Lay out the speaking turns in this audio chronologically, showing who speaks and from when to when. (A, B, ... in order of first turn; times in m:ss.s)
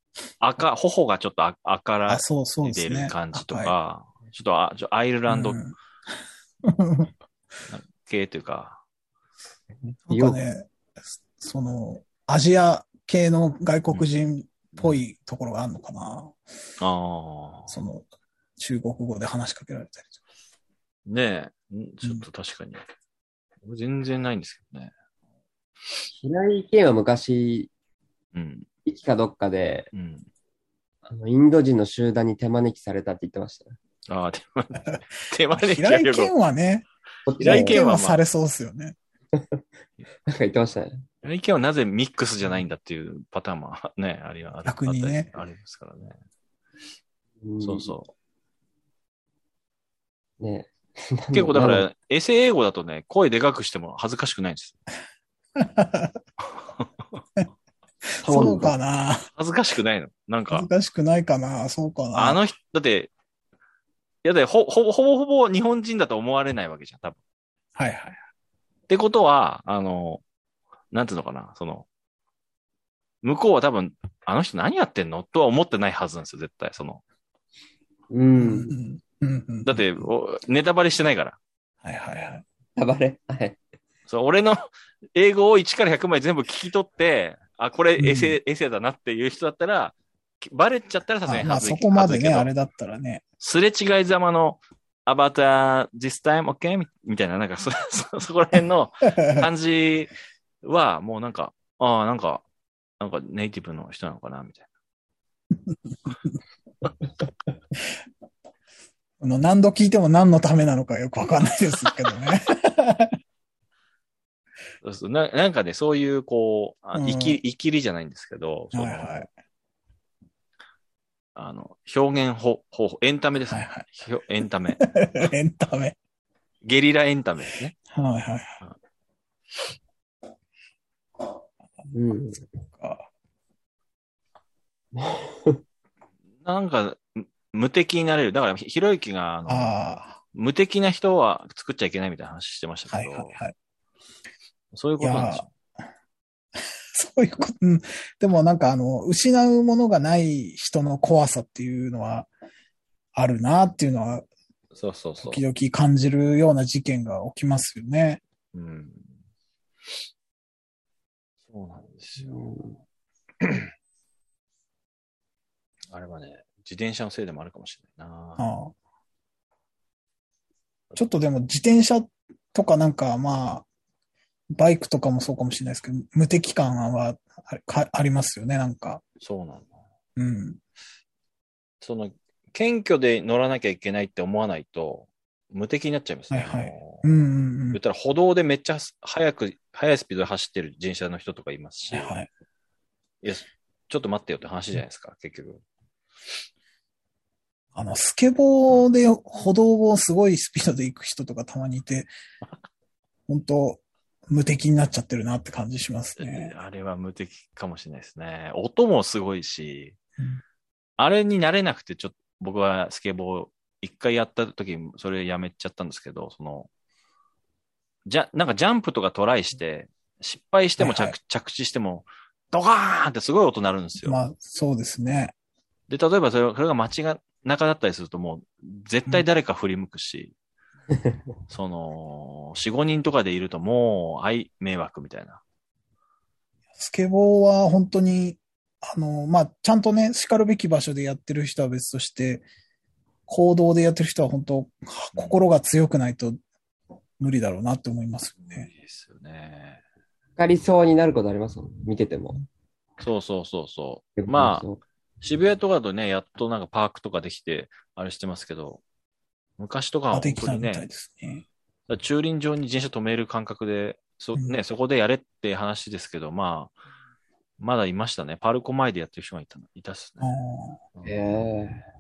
0:00.4-0:05.6 A
0:02.1-0:03.7 B
0:05.3-0:05.8 B
0:06.6-0:07.1 B
0:07.7-0:08.8 A
0:10.1-0:10.7 B
0:10.1-0:10.4 C
0:11.4-0:16.4 B
0:16.8-0:17.8 A
0:17.7-0:18.1 B
0:18.6-0:20.1 B
0:21.1-0:22.8 A
0:23.6-0:24.9 A
0:26.2-0:27.7 C
0:28.4-0:28.7 A
0:28.8-0:29.9 C
0:29.9-0:30.2 A
0:31.1-0:33.8 C
0:34.1-0:36.3 A
0:35.5-0:36.9 B
0:37.3-0:37.8 C
0:37.4-0:38.2 A
0:37.4-0:39.0 B
0:39.4-0:39.6 C
0:40.3-0:41.0 C
0:41.2-0:46.2 A
0:44.6-0:45.3 B
0:47.4-0:47.9 C
0:47.6-0:48.1 A
0:50.4-0:51.8 C
0:51.3-0:54.8 A
0:55.6-0:56.2 B
0:58.2-0:59.3 B
0:58.2-0:58.8 C
0:59.4-1:00.7 A
1:00.5-1:02.4 B
1:02.1-1:03.1 A
1:04.2-1:07.2 A
1:07.8-1:08.2 B
1:08.9-1:10.2 A
1:10.9-1:11.9 A
1:13.2-1:17.0 A
1:18.1-1:18.7 C
1:18.4-1:20.0 B
1:19.6-1:21.4 A
1:21.8-1:22.4 B
1:22.8-1:23.6 C
1:24.1-1:32.5 A
1:28.0-1:28.4 B
1:31.2-1:33.2 B
1:33.4-1:40.1 A
1:39.2-1:39.5 B
1:40.6-1:42.4 A
1:43.0-1:44.7 A
1:49.2-1:53.1 B
1:54.8-1:59.2 A
1:57.0-1:57.4 B
1:58.7-1:59.3 B
2:01.4-2:04.8 A
2:03.5-2:03.9 B
2:04.8-2:06.0 B
2:06.6-2:07.8 A
2:07.9-2:08.6 B
2:11.9-2:12.4 C
2:12.7-2:13.1 B
2:15.0-2:15.6 C
2:16.4-2:19.8 A
2:19.5-2:20.2 B
2:20.3-2:23.4 A
2:22.9-2:23.5 B
2:24.7-2:25.5 A
2:25.0-2:25.4 B
2:26.9-2:32.3 B
2:33.1-2:34.3 B
2:34.8-2:35.4 A
2:35.2-2:38.2 B
2:38.5-2:39.1 A
2:41.5-2:42.5 A
2:42.2-2:42.8 C
2:43.4-2:43.7 A
2:45.9-2:48.4 A
2:48.4-2:48.7 B
2:51.0-2:53.7 B
2:54.5-2:59.0 B
2:59.2-2:59.8 A
3:00.2-3:00.6 B
3:01.8-3:07.1 A
3:06.3-3:07.8 B
3:07.7-3:12.1 A
3:11.9-3:12.3 B
3:13.2-3:15.6 A
3:17.8-3:22.1 B
3:23.3-3:26.5 B
3:26.2-3:30.0 A
3:31.0-3:36.7 A
3:38.1-3:44.2 A
3:40.8-3:41.2 B
3:44.0-3:45.3 B
3:45.9-3:50.3 A
3:51.5-3:55.4 A
3:56.7-4:02.5 B
4:03.3-4:06.4 B
4:07.2-4:08.7 B
4:08.4-4:09.8 A
4:10.4-4:12.4 C
4:13.0-4:14.6 A
4:14.2-4:14.8 C
4:15.2-4:18.8 A
4:19.6-4:20.8 A
4:20.1-4:21.4 B
4:21.9-4:26.8 A
4:27.6-4:30.3 A
4:30.2-4:30.8 B
4:31.0-4:31.8 C